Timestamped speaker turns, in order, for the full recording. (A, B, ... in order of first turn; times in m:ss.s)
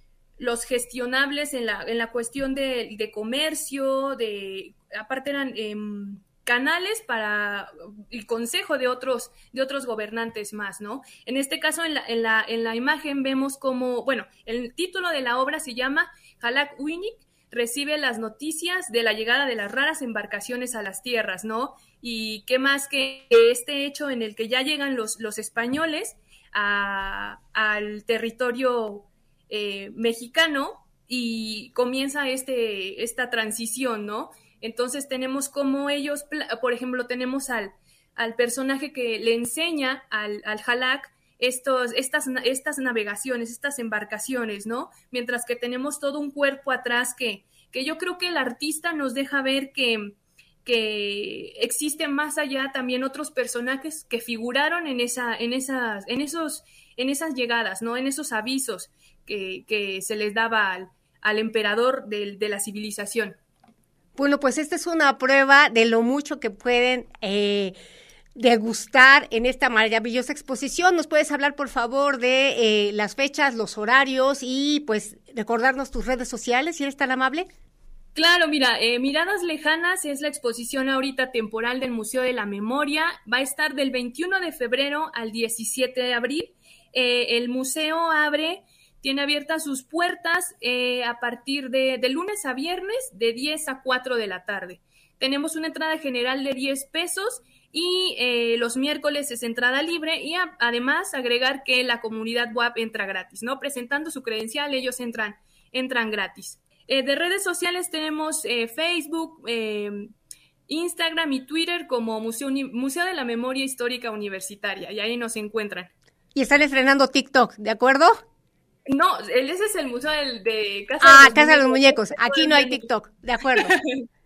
0:00.4-1:03.4 A
1:04.2-1:07.7 B
1:08.4-1:17.5 B
1:18.1-1:50.1 A
1:50.7-1:55.9 A
1:56.4-1:58.2 B
1:58.9-2:02.9 A
2:01.0-2:03.8 B
2:03.6-2:04.1 A